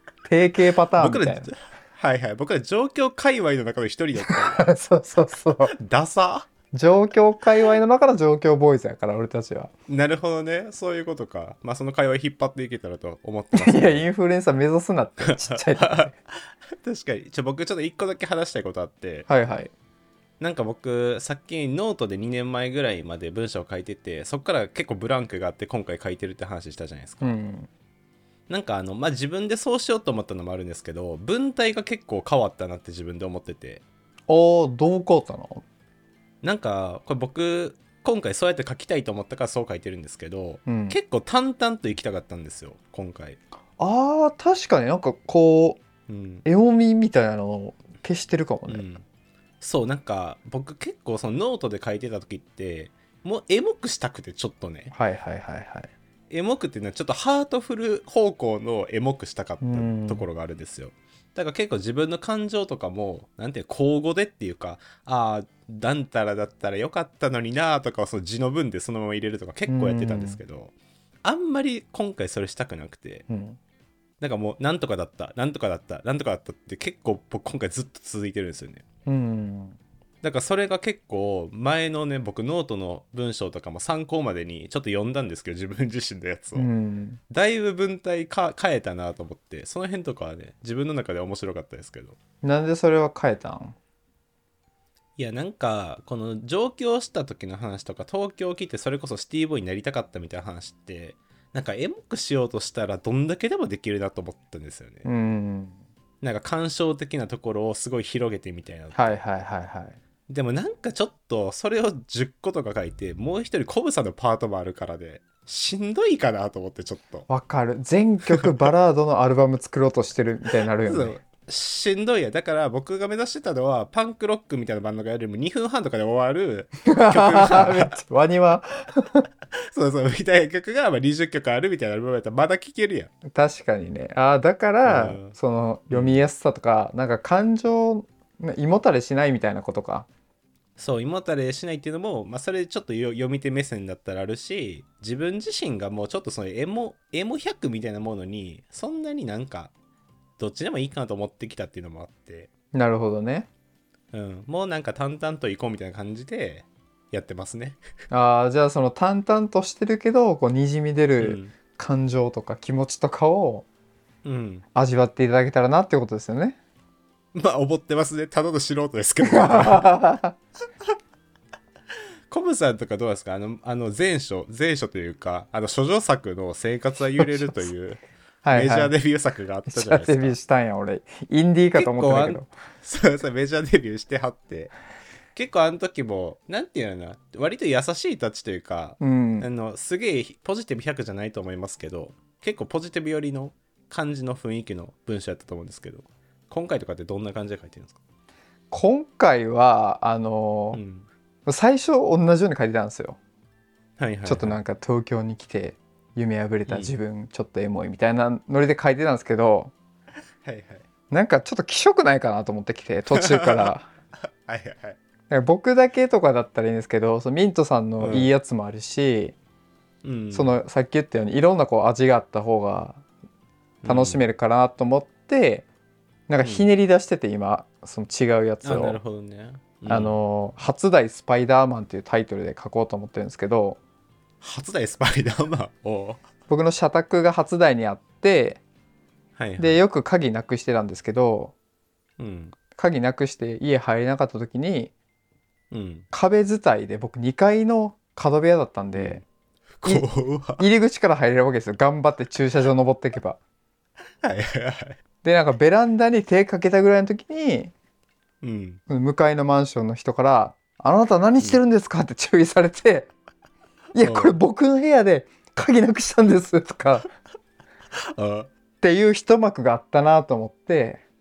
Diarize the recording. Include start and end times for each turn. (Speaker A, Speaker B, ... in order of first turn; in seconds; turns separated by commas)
Speaker A: 0.3-1.5, Speaker B: 1.0-4.7, Speaker A: 4.3-5.7, Speaker B: 5.7-6.5, Speaker A: 6.7-9.7, Speaker B: 9.9-14.1, Speaker A: 13.5-16.1, Speaker B: 15.2-19.3, Speaker A: 19.3-19.7, Speaker B: 20.4-27.3, Speaker A: 27.2-27.7, Speaker B: 28.5-33.8, Speaker A: 34.3-35.6, Speaker B: 36.4-43.4, Speaker A: 40.7-41.0, Speaker A: 43.8-45.8, Speaker B: 46.1-46.5, Speaker A: 46.5-48.9, Speaker B: 48.7-49.0, Speaker B: 49.6-54.9, Speaker A: 54.9-55.9, Speaker B: 56.3-70.7, Speaker A: 59.6-60.2, Speaker A: 69.7-70.4, Speaker B: 71.2-73.3, Speaker A: 73.3-73.6, Speaker B: 74.2-78.8, Speaker A: 79.1-79.8, Speaker B: 80.2-86.7, Speaker A: 86.5-87.2, Speaker B: 87.3-92.2, Speaker A: 92.4-93.8, Speaker B: 95.2-105.1, Speaker A: 105.0-105.8, Speaker B: 106.2-109.2, Speaker A: 108.9-110.0, Speaker B: 110.3-117.3, Speaker A: 117.3-121.2, Speaker B: 120.9-127.9, Speaker A: 126.9-129.3, Speaker B: 129.7-133.1, Speaker A: 133.3-140.1, Speaker B: 134.8-135.3, Speaker B: 135.9-136.2, Speaker B: 140.8-149.7, Speaker B: 150.4-152.5, Speaker A: 152.7-153.5, Speaker B: 154.1-157.8, Speaker A: 158.1-163.7, Speaker B: 161.2-161.6, Speaker B: 164.2-164.7, Speaker A: 164.8-166.6, Speaker B: 167.3-169.8, Speaker A: 169.2-170.4, Speaker B: 172.3-180.4, Speaker A: 177.2-177.6, Speaker A: 178.4-178.9, Speaker A: 179.7-182.5, Speaker B: 181.8-184.7, Speaker B: 185.3-198.0, Speaker A: 189.0-189.5, Speaker A: 198.7-200.8, Speaker B: 200.7-201.1, Speaker A: 201.5-203.2, Speaker B: 204.0-204.6, Speaker A: 204.2-209.7, Speaker B: 206.7-206.9, Speaker B: 210.4-210.8, Speaker A: 211.1-213.9, Speaker B: 213.2-213.7, Speaker B: 214.5-215.0, Speaker A: 215.3-219.4, Speaker B: 218.0-218.3, Speaker B: 220.0-220.6, Speaker A: 220.3-223.0, Speaker B: 223.8-224.2, Speaker A: 223.8-225.7, Speaker A: 226.3-229.0, Speaker B: 226.4-226.7, Speaker B: 228.6-230.2, Speaker A: 229.9-233.8, Speaker B: 234.4-236.2, Speaker A: 236.5-238.6, Speaker B: 239.4-239.8, Speaker A: 239.6-241.5, Speaker B: 242.2-242.5, Speaker A: 242.8-244.9, Speaker B: 245.7-246.1, Speaker A: 246.1-249.2, Speaker B: 248.9-249.2, Speaker B: 249.8-250.7, Speaker A: 249.8-253.4, Speaker B: 254.2-255.0, Speaker A: 255.2-257.7, Speaker B: 258.4-258.8, Speaker A: 258.9-263.1, Speaker A: 263.9-267.1, Speaker B: 264.0-264.4, Speaker B: 268.1-268.5, Speaker A: 268.8-271.0